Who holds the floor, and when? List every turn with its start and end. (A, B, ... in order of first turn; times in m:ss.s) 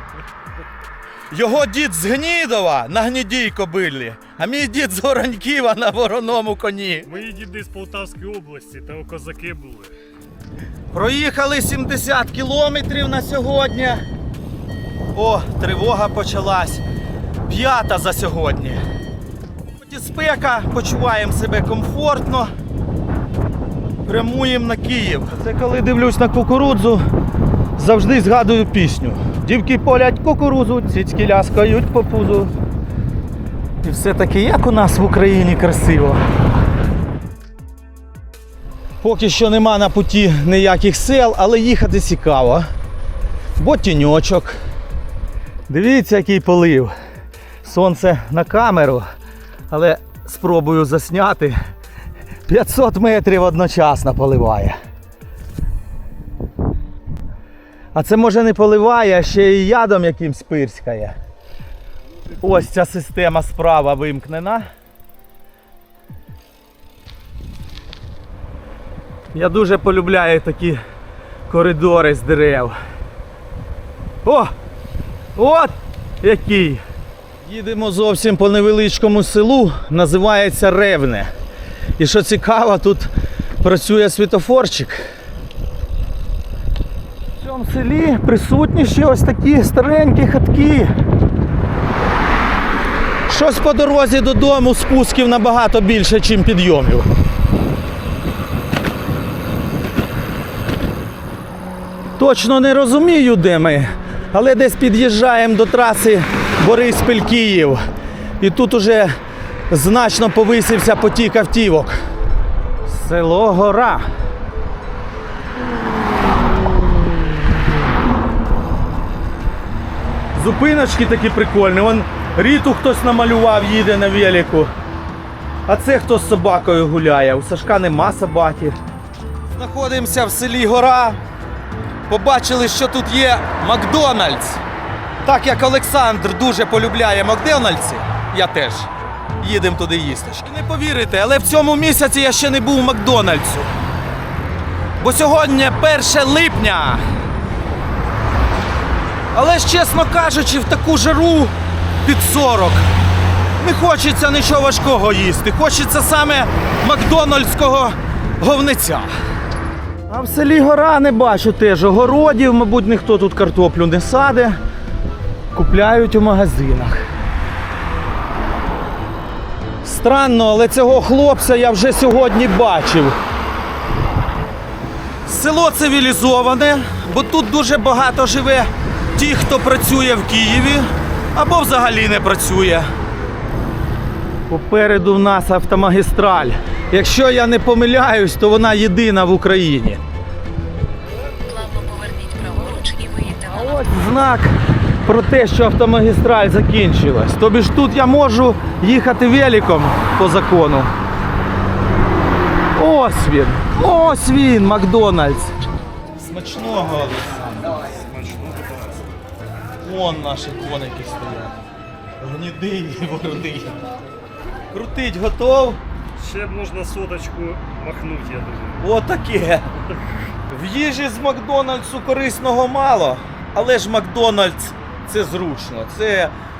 0:01.3-0:07.1 A
0:07.0-0:09.9 B
0:10.9-0:14.0 A
0:15.1-0:16.8 A
0:17.4-0:18.8 A
0:19.8-0:22.5 A
0:24.0-0:27.0 A
0:27.8-0:32.5 A
0:33.8-0:36.2 A
0:39.0-0:42.7 A
0:43.6-0:44.6 A
0:45.7-0:46.9 A
0:47.6-0:49.0 A
0:49.7-0:51.6 A
0:52.4-0:54.8 A
0:57.9-1:01.2 A
1:02.4-1:04.7 A
1:09.3-1:10.8 A
1:11.5-1:12.8 A
1:14.2-1:14.5 A
1:15.4-1:16.8 A
1:17.4-1:21.3 A
1:22.0-1:25.1 A
1:27.4-1:30.9 A
1:33.3-1:37.1 A
1:42.2-1:47.8 A
1:48.4-1:49.1 A
1:49.7-1:52.0 A
1:52.8-1:54.1 A
2:00.3-2:04.7 A
2:05.7-2:08.8 A
2:09.5-2:11.2 A
2:12.1-2:14.6 A
2:15.2-2:18.9 A
2:19.4-2:23.7 A
2:25.0-2:27.0 A
2:29.3-2:31.5 A
2:32.0-2:32.8 A
2:33.6-2:39.1 A
2:40.1-2:44.6 A
2:45.5-2:47.0 A
2:49.8-2:53.2 A
2:55.2-3:02.9 A
3:04.5-3:10.0 A
3:11.4-3:13.8 C
3:13.5-3:20.9 A
3:22.7-3:25.5 A
3:26.2-3:27.9 A
3:27.8-3:29.2 B
3:29.8-3:31.6 A
3:32.2-3:33.8 A
3:34.7-3:35.8 A
3:36.2-3:38.8 B
3:38.8-3:39.7 A
3:40.5-3:46.3 A